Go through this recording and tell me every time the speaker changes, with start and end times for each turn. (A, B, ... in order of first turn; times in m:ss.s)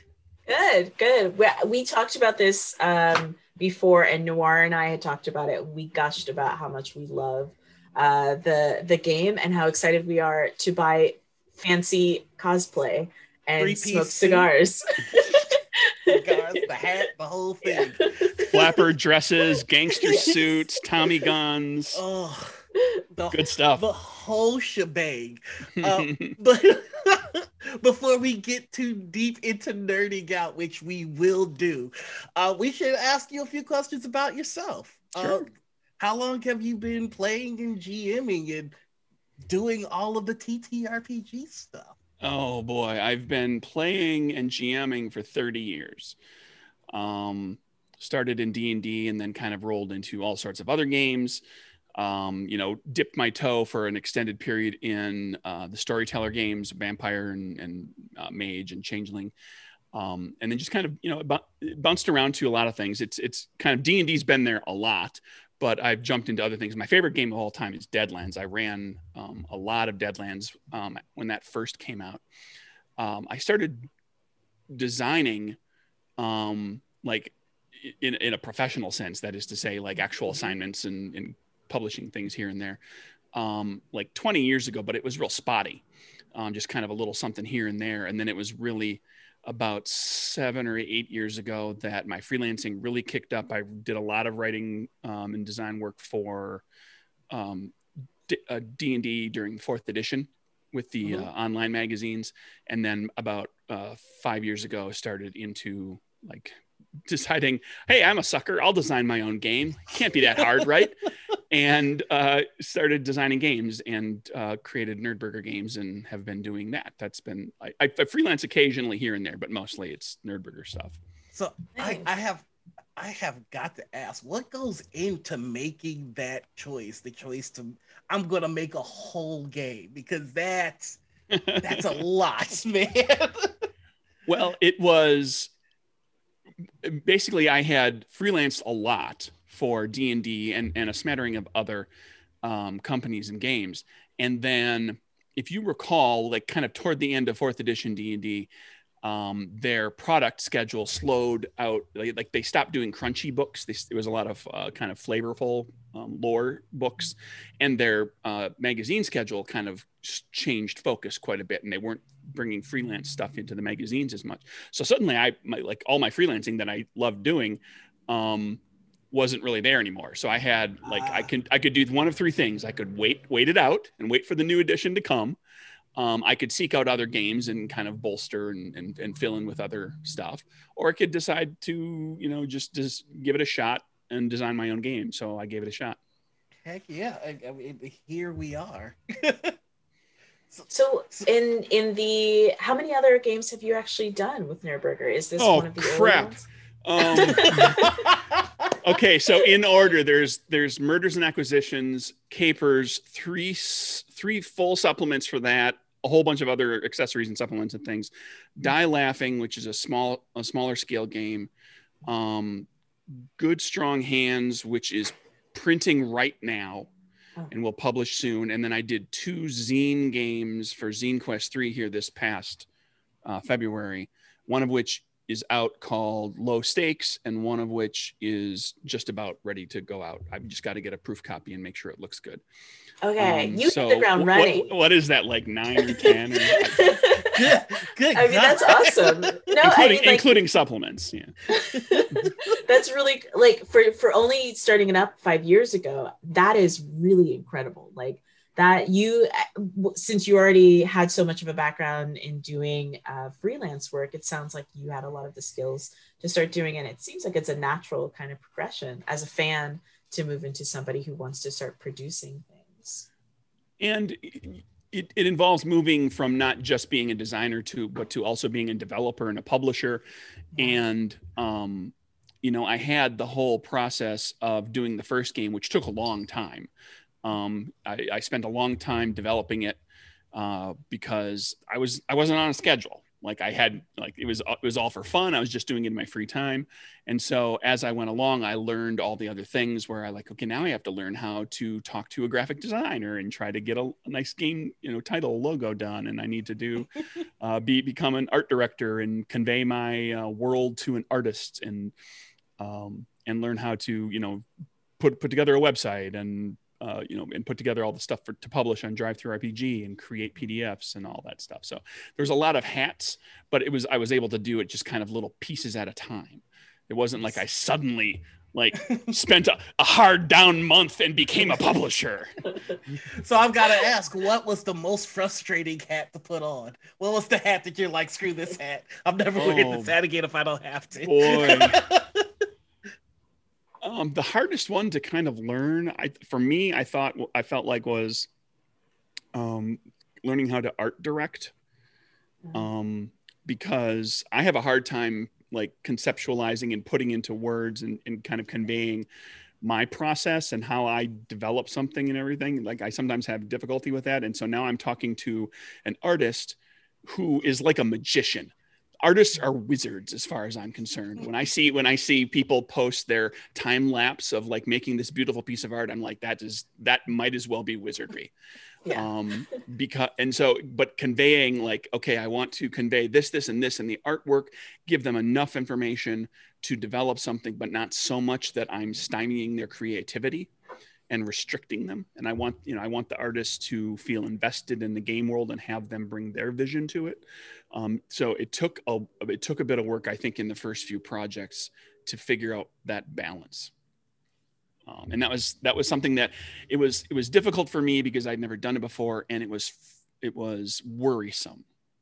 0:00.5-0:16.7 A
0:13.6-0:14.5 B
0:16.1-0:18.7 B
0:17.6-0:18.3 A
0:18.5-0:22.0 C
0:20.0-0:20.3 A
0:20.1-0:20.4 B
0:22.0-0:22.6 B
0:23.1-0:35.5 B
0:23.3-0:23.8 C
0:25.8-0:26.4 C
0:35.2-0:35.4 C
0:36.0-0:38.7 B
0:39.5-0:42.0 B
0:42.2-0:46.2 C
0:46.9-0:51.4 C
0:52.0-0:59.3 C
0:59.9-1:12.2 C
1:13.0-1:13.9 C
1:14.7-1:15.6 C
1:16.2-1:22.8 C
1:23.3-1:25.8 C
1:26.3-1:36.6 C
1:37.3-1:37.7 C
1:38.3-1:46.6 C
1:47.1-2:01.0 C
2:01.3-2:02.4 B
2:01.8-2:02.1 A
2:03.0-2:11.0 B
2:11.3-2:12.0 C
2:11.6-2:13.6 B
2:14.2-2:15.5 C
2:16.8-2:21.9 C
2:22.4-2:28.5 C
2:29.0-2:48.6 C
2:49.1-2:55.4 C
2:50.9-2:51.3 B
2:56.0-3:06.0 C
3:06.6-3:09.6 B
3:10.5-3:11.3 B
3:10.7-3:16.5 A
3:15.4-3:17.9 C
3:17.0-3:18.0 A
3:17.2-3:18.7 B
3:18.8-3:31.5 C
3:32.1-3:32.7 C
3:33.4-3:36.9 C
3:37.5-3:42.7 C
3:43.2-3:52.4 C
3:53.0-3:54.7 A
3:53.2-3:57.3 C
3:55.9-3:57.5 A
3:57.3-3:59.5 B
3:58.2-4:00.3 A
3:59.6-4:01.3 C
4:01.5-4:23.1 A
4:23.8-4:30.0 C
4:30.6-4:36.7 C
4:37.2-4:39.8 C
4:40.3-5:01.9 C
5:02.6-5:04.4 C
5:05.0-5:23.0 C
5:23.1-5:32.3 B
5:29.4-5:30.0 C
5:31.0-5:31.8 C
5:33.8-5:38.3 C
5:39.3-5:41.5 C
5:42.5-5:49.1 C
5:49.6-5:58.5 C
5:59.0-6:08.3 C
6:08.9-6:20.5 C
6:21.1-6:33.7 C
6:34.9-6:41.6 C